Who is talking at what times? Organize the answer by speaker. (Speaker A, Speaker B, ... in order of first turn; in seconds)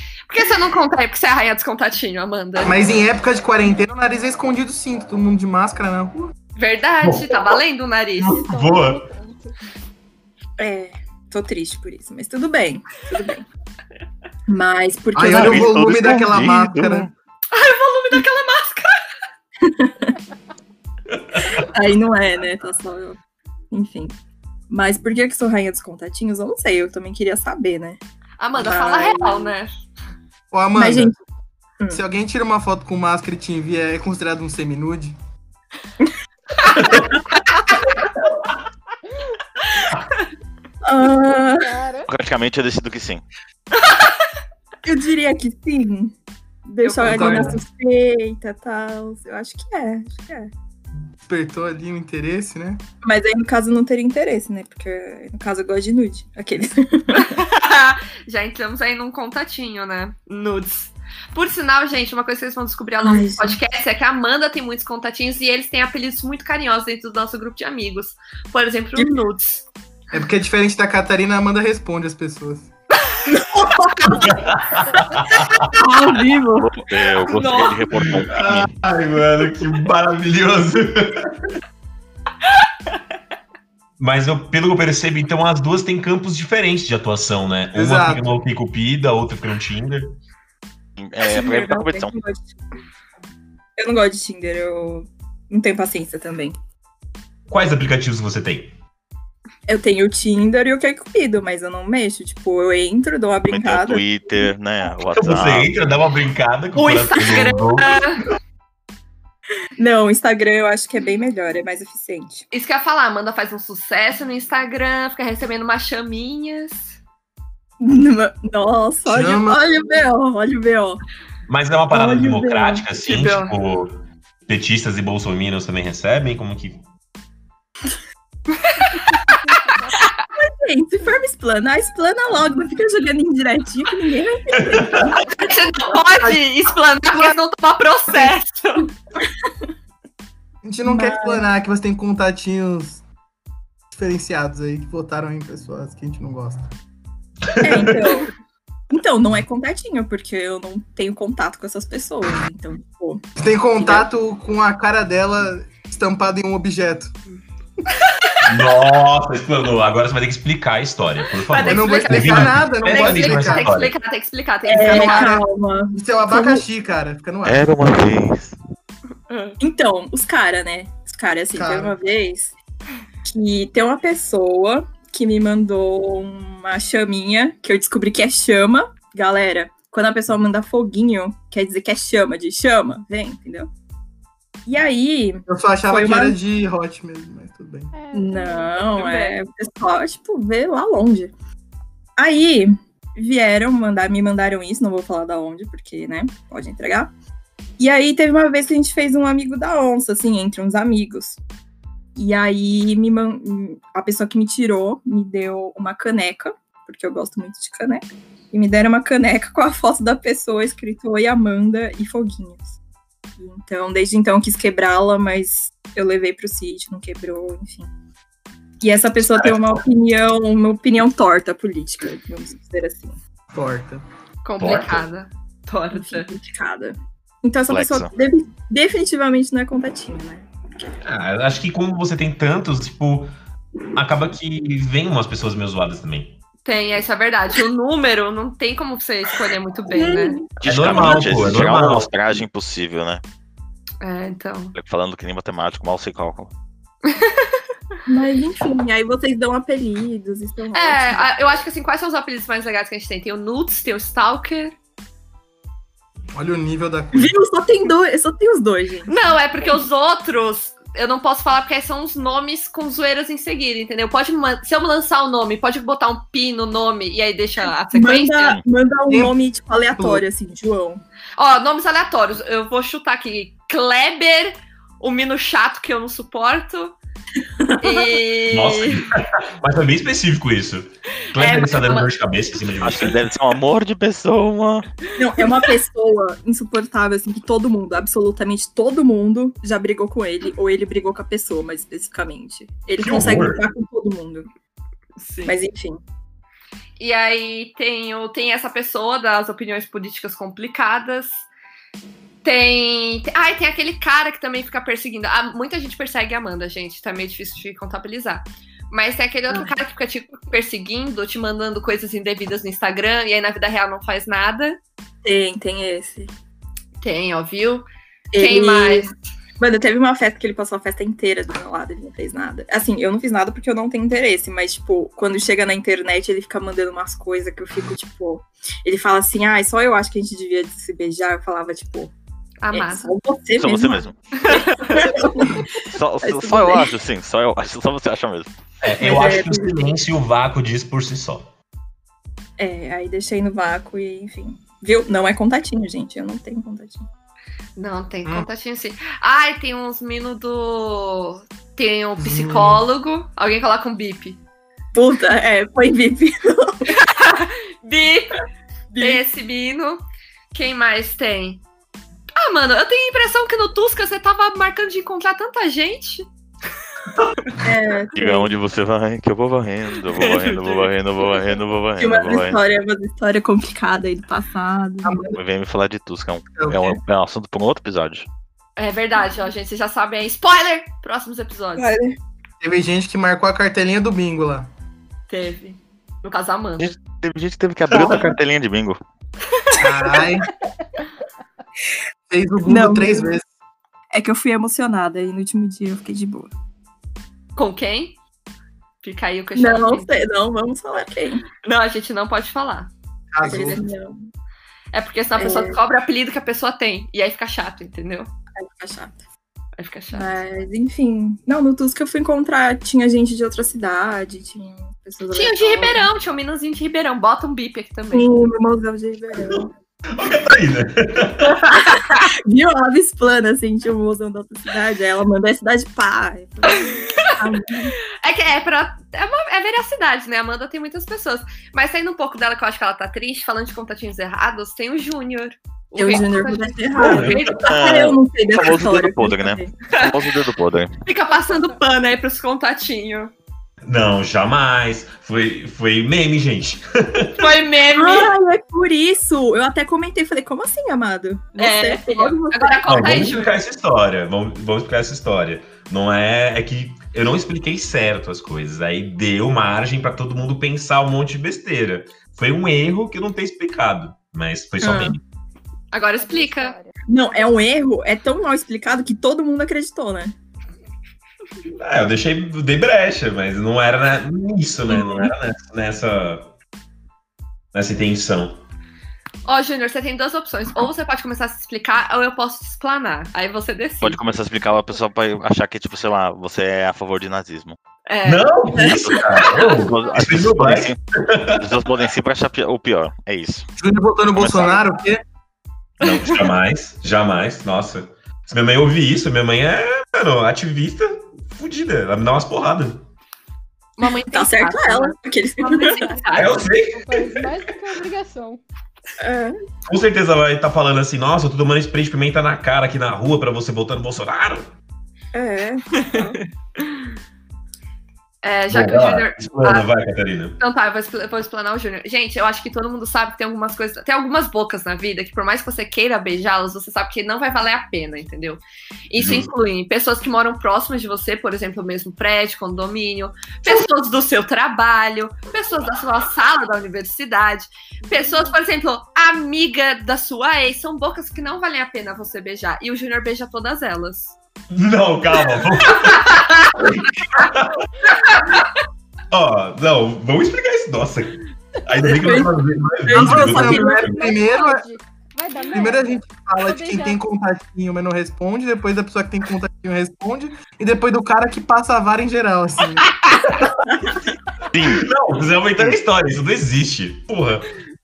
Speaker A: 0.3-2.8, 6.5-8.4, 17.5-19.0, 28.4-29.7, 43.8-44.1, 46.8-47.5, 57.1-69.7, 77.3-77.8, 106.7-108.2, 112.5-117.0, 123.0-123.5, 128.6-129.2, 135.2-138.9, 157.9-158.7, 161.4-165.4, 169.3-169.6, 188.9-189.4, 224.4-226.3, 236.6-240.4, 244.0-244.7, 247.1-247.5, 250.7-254.7, 259.1-268.6, 271.4-277.0, 277.8-279.1, 281.3-282.1, 295.2-295.6, 297.0-301.5, 302.4-314.8, 317.0-319.1, 332.6-333.1, 334.4-335.1, 347.8-354.4, 356.9-358.4, 359.0-361.6, 362.4-366.2, 370.0-371.4, 378.8-381.9, 385.3-386.9, 397.6-398.2, 399.0-400.1, 401.6-402.9, 404.9-408.3, 409.8-410.4, 415.3-418.3, 426.7-427.4, 428.2-437.7, 441.0-443.3, 447.4-448.3, 451.6-453.6, 465.9-466.8, 479.4-484.2, 488.1-488.5, 496.0-496.5, 504.0-506.7, 516.0-517.0, 518.4-519.9, 520.6-544.4, 545.9-546.9, 548.4-548.6
Speaker B: 2.6-6.3, 15.1-17.1, 30.5-31.1, 31.9-35.1, 47.0-47.6, 51.2-52.8, 70.1-72.7, 87.7-88.2, 119.1-119.7, 140.6-143.0, 143.9-146.7, 153.4-157.1, 161.6-163.7, 164.8-167.7, 171.5-171.9, 185.5-187.9, 223.5-224.0, 256.3-257.4, 269.1-269.4, 269.9-270.2, 352.2-352.8, 375.0-375.4, 376.5-377.0, 382.6-384.7, 389.8-390.5, 392.3-393.4, 403.3-403.9, 493.8-495.2, 553.1-554.9, 555.7-563.1
Speaker C: 7.0-7.4, 8.2-9.1, 74.1-75.7, 78.0-81.5, 84.0-90.2, 97.5-98.7, 105.1-108.0, 121.5-126.8, 134.6-135.1, 147.5-148.2, 158.4-163.9, 219.3-219.8, 224.6-225.0, 231.0-233.3, 233.9-236.4, 240.6-242.4, 278.5-283.2, 293.0-293.6, 338.8-341.5, 420.1-421.8, 436.9-437.6, 443.8-447.5, 452.9-465.2, 471.7-476.5, 477.7-478.6, 488.2-491.7, 496.0-503.0, 506.3-507.5, 509.9-514.7, 518.7-520.6, 529.1-529.5, 544.7-548.6, 549.3-554.3, 563.3-563.7, 564.8-567.7
Speaker D: 8.2-9.5, 41.6-42.1, 129.3-130.0, 187.9-188.9, 466.2-467.5, 489.9-490.3, 505.9-508.6, 538.0-538.5, 554.0-557.2
Speaker E: 10.6-13.4, 14.5-15.9, 19.6-20.1, 21.5-23.2, 23.7-24.1, 24.7-28.0, 28.6-29.5, 30.7-31.2, 36.7-37.2, 40.8-41.7, 44.8-46.1, 46.6-50.5, 53.0-57.3, 63.0-63.6, 73.3-74.3, 75.7-76.7, 91.2-92.5, 93.8-96.5, 99.7-104.5, 109.8-112.5, 117.8-121.0, 121.9-122.8, 130.3-135.5, 140.8-141.5, 147.6-148.3, 148.9-153.2, 164.7-166.6, 169.6-172.5, 173.2-183.7, 184.7-186.4, 188.1-191.3, 192.2-197.1, 197.8-201.4, 202.2-212.8, 213.4-217.9, 218.8-223.2, 225.9-230.9, 239.9-241.1, 248.1-251.3, 257.1-259.1, 267.9-271.0, 277.6-278.0, 285.2-294.5, 295.4-296.0, 315.2-316.3, 318.3-332.1, 332.7-336.9, 339.0-339.7, 342.6-347.0, 354.9-356.9, 358.9-359.2, 367.6-368.5, 372.0-375.3, 381.8-382.2, 392.6-393.3, 394.1-396.5, 399.6-401.4, 403.4-404.2, 405.4-405.8, 408.6-409.2, 410.1-416.1, 418.1-419.7, 421.5-427.9, 436.0-439.7, 447.9-453.2, 464.8-465.2, 467.1-470.3, 474.9-475.3, 488.7-489.5, 504.3-506.0, 509.2-509.6, 515.3-516.4, 552.0-552.5, 553.0-554.1
Speaker F: 15.3-17.1, 42.1-43.2, 76.5-78.7, 91.0-92.1, 103.5-105.7, 167.4-168.6, 227.7-228.1, 240.6-243.2, 244.7-246.5, 282.8-284.9, 333.6-334.4, 335.8-338.5, 368.1-372.6, 375.3-378.3, 386.8-389.0, 437.6-440.9, 484.0-487.8, 488.8-491.0, 491.5-493.7, 494.3-494.8, 564.7-565.1